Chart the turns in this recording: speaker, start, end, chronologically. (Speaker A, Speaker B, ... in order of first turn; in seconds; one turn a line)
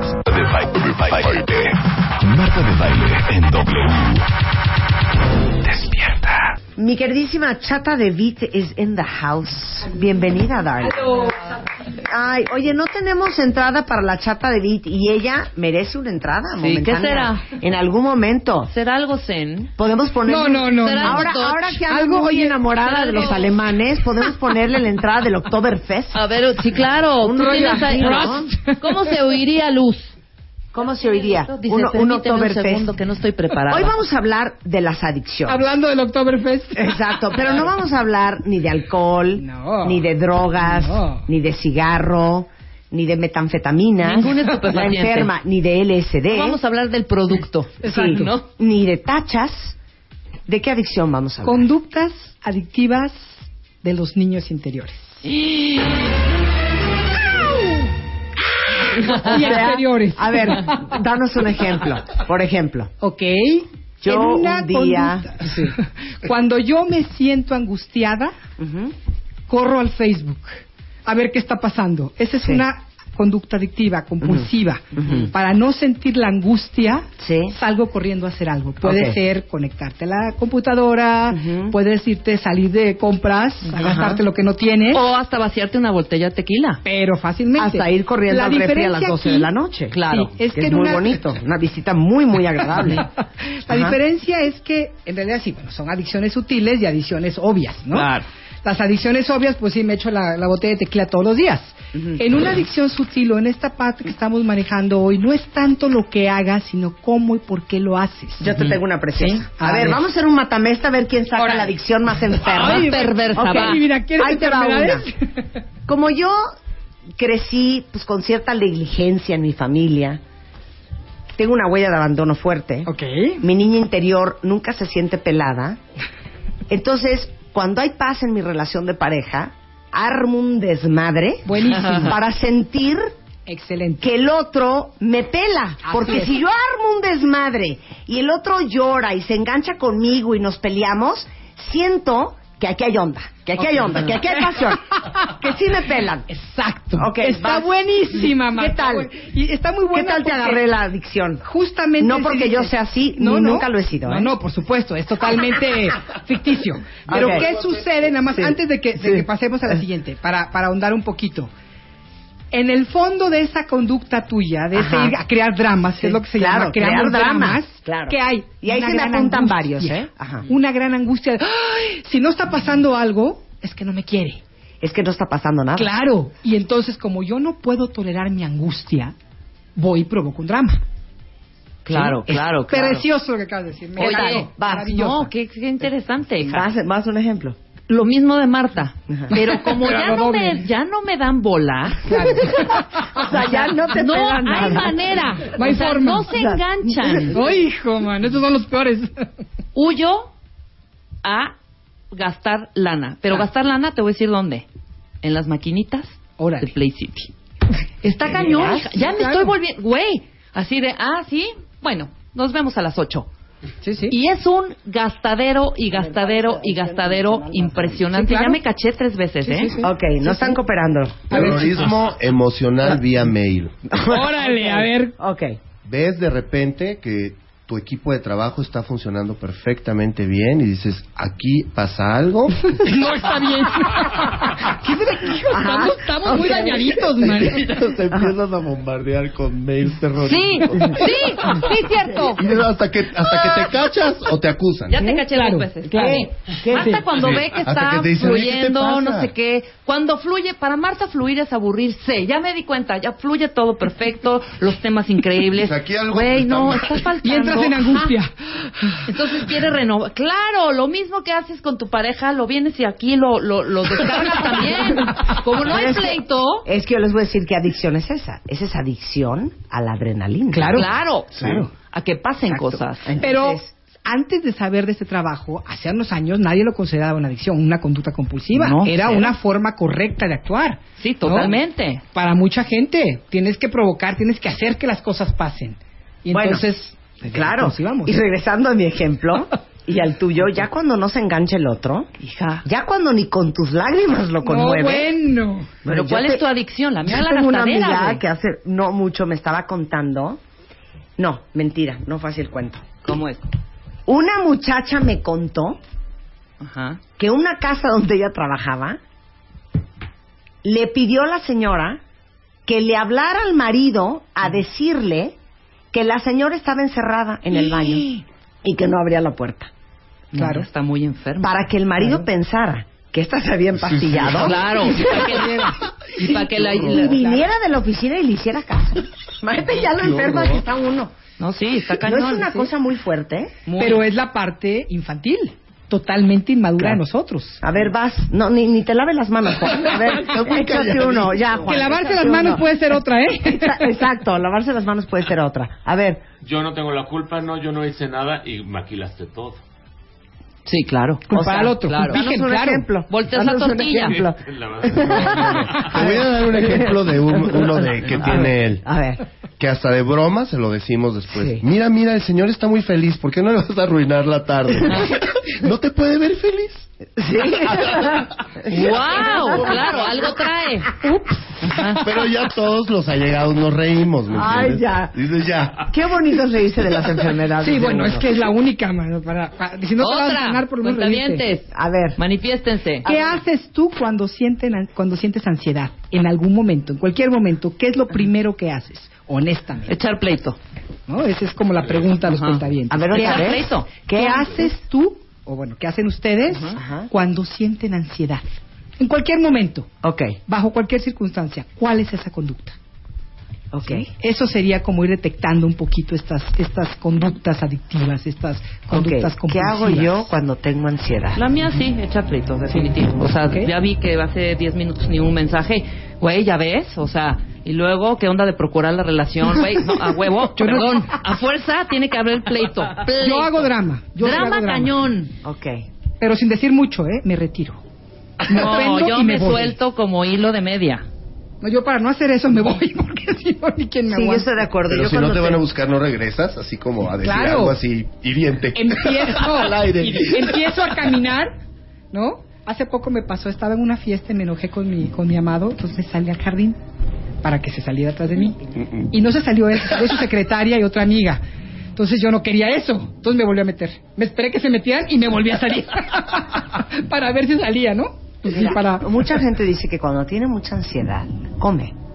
Speaker A: 0.2-4.3
Speaker A: 5.6-6.5
Speaker B: 6.8-11.3
Speaker C: 10.9-11.5
Speaker B: 11.9-18.7
Speaker D: 16.6-17.5
Speaker D: 18.7-19.7
Speaker B: 19.8-26.2
Speaker C: 20.3-22.6
Speaker D: 20.6-21.7
Speaker D: 22.8-23.5
Speaker D: 26.1-30.1
Speaker B: 27.2-28.5
Speaker C: 27.7-29.1
Speaker B: 30.7-32.9
Speaker D: 31.0-33.9
Speaker B: 33.7-35.6
Speaker C: 35.5-37.1
Speaker B: 36.8-46.6
Speaker C: 39.4-40.0
Speaker C: 40.6-41.2
Speaker D: 44.0-45.3
Speaker D: 46.3-48.4
Speaker C: 47.8-48.3
Speaker B: 47.8-49.8
Speaker B: 50.5-51.7
Speaker C: 51.4-55.2
Speaker D: 55.2-55.9
Speaker C: 58.9-60.9
Speaker B: 58.9-62.9
Speaker C: 63.0-68.3
Speaker B: 64.0-65.7
Speaker B: 68.6-68.9
Speaker C: 69.5-85.0
Speaker B: 74.2-75.3
Speaker B: 77.2-77.5
Speaker B: 78.8-79.2
Speaker B: 81.3-81.8
Speaker B: 83.8-84.2
Speaker D: 84.9-86.8
Speaker C: 86.8-89.5
Speaker B: 87.6-93.1
Speaker D: 89.9-90.3
Speaker C: 90.0-91.2
Speaker C: 92.7-98.1
Speaker B: 93.7-94.0
Speaker D: 97.9-98.2
Speaker C: 98.6-108.6
Speaker B: 101.9-102.2
Speaker B: 108.4-115.0
Speaker C: 109.2-110.0
Speaker D: 112.5-113.8
Speaker C: 112.5-115.4
Speaker B: 115.8-116.5
Speaker B: 117.2-120.2
Speaker B: 121.3-125.8
Speaker C: 122.8-123.4
Speaker B: 126.7-131.5
Speaker C: 131.4-132.2
Speaker D: 131.6-132.1
Speaker B: 132.0-133.1
Speaker C: 133.5-134.0
Speaker B: 134.0-146.3
Speaker C: 135.8-136.3
Speaker C: 143.6-145.3
Speaker C: 146.3-150.6
Speaker B: 146.9-149.1
Speaker B: 149.9-151.4
Speaker C: 151.4-161.5
Speaker B: 152.0-154.3
Speaker B: 157.1-157.5
Speaker E: 157.2-157.7
Speaker B: 158.3-159.3
Speaker C: 162.5-174.4
Speaker B: 164.7-165.2
Speaker B: 166.0-170.5
Speaker B: 174.8-175.9
Speaker C: 175.7-179.1
Speaker C: 179.8-180.8
Speaker B: 181.9-182.2
Speaker D: 181.9-183.1
Speaker C: 182.2-185.3
Speaker D: 184.0-186.7
Speaker B: 184.0-184.9
Speaker B: 186.4-187.6
Speaker D: 187.9-192.3
Speaker C: 189.3-190.6
Speaker C: 192.1-193.3
Speaker B: 192.2-195.0
Speaker D: 193.8-197.4
Speaker C: 195.5-196.3
Speaker B: 196.3-197.3
Speaker C: 197.3-199.1
Speaker D: 199.7-200.3
Speaker D: 201.2-201.5
Speaker D: 202.1-204.7
Speaker D: 205.2-207.3
Speaker C: 206.4-206.7
Speaker D: 208.0-213.3
Speaker C: 208.3-209.5
Speaker C: 213.8-214.2
Speaker D: 214.1-219.8
Speaker B: 215.9-218.0
Speaker C: 218.1-218.6
Speaker C: 219.4-220.6
Speaker B: 219.8-221.5
Speaker E: 221.3-223.9
Speaker C: 221.3-221.7
Speaker B: 223.9-225.6
Speaker C: 223.9-225.1
Speaker E: 225.8-232.9
Speaker C: 232.7-238.0
Speaker B: 235.5-237.1
Speaker E: 237.2-245.0
Speaker B: 238.1-238.3
Speaker D: 240.2-242.2
Speaker C: 241.4-242.5
Speaker D: 244.9-258.0
Speaker C: 245.0-247.1
Speaker B: 245.9-247.0
Speaker E: 247.2-249.3
Speaker E: 255.5-257.1
Speaker C: 257.2-259.1
Speaker D: 259.0-266.7
Speaker B: 265.6-270.9
Speaker C: 270.5-270.9
Speaker D: 270.7-273.1
Speaker C: 271.4-271.7
Speaker B: 273.0-273.7
Speaker C: 273.2-281.6
Speaker D: 278.5-279.3
Speaker D: 281.0-282.0
Speaker C: 282.1-288.2
Speaker B: 286.3-286.6
Speaker B: 287.3-292.1
Speaker D: 292.2-292.6
Speaker B: 292.6-295.1
Speaker C: 294.4-295.8
Speaker B: 295.8-296.4
Speaker D: 295.9-298.2
Speaker B: 297.0-300.4
Speaker B: 301.2-302.9
Speaker D: 303.0-303.4
Speaker B: 304.1-305.8
Speaker D: 306.6-307.0
Speaker B: 307.2-309.0
Speaker B: 310.6-312.0
Speaker B: 312.6-315.4
Speaker B: 315.9-319.7
Speaker D: 320.3-321.6
Speaker C: 320.3-320.7
Speaker B: 321.4-325.4
Speaker E: 323.8-324.5
Speaker D: 324.3-327.1
Speaker C: 324.8-327.4
Speaker B: 326.6-331.1
Speaker E: 330.2-330.6
Speaker D: 331.4-332.7
Speaker B: 332.0-333.5
Speaker D: 333.6-334.1
Speaker C: 333.8-337.6
Speaker B: 337.6-342.7
Speaker E: 339.9-341.6
Speaker C: 341.6-344.0
Speaker B: 343.3-346.2
Speaker F: 346.4-349.6
Speaker D: 350.6-351.3
Speaker C: 351.3-352.9
Speaker B: 351.3-359.2
Speaker D: 351.8-352.3
Speaker D: 353.1-354.2
Speaker F: 354.1-355.9
Speaker E: 355.9-358.9
Speaker E: 359.6-366.9
Speaker B: 361.3-361.6
Speaker B: 367.2-370.1
Speaker E: 367.4-370.1
Speaker D: 368.7-371.0
Speaker D: 371.6-372.0
Speaker E: 372.0-375.9
Speaker B: 374.3-375.1
Speaker B: 375.8-378.3
Speaker C: 377.6-381.5
Speaker D: 380.0-383.2
Speaker B: 381.7-382.2
Speaker C: 383.0-389.9
Speaker D: 389.9-390.6
Speaker C: 391.1-398.4
Speaker D: 392.2-393.9
Speaker B: 392.9-394.7
Speaker D: 396.5-396.8
Speaker B: 396.8-397.1
Speaker C: 399.0-399.9
Speaker B: 400.0-400.4
Speaker C: 400.5-402.8
Speaker B: 403.7-404.1
Speaker C: 403.9-410.3
Speaker B: 408.9-411.4
Speaker D: 411.3-425.3
Speaker C: 413.3-413.7
Speaker C: 420.5-421.2
Speaker C: 423.1-425.0
Speaker B: 425.4-425.9
Speaker C: 426.2-427.8
Speaker D: 428.4-431.1
Speaker C: 428.5-429.8
Speaker C: 431.6-434.6
Speaker B: 434.1-435.6
Speaker E: 434.9-441.1
Speaker C: 437.2-437.8
Speaker C: 438.7-441.5
Speaker C: 442.1-446.8
Speaker C: 447.4-451.4
Speaker C: 451.9-459.3
Speaker B: 458.4-461.9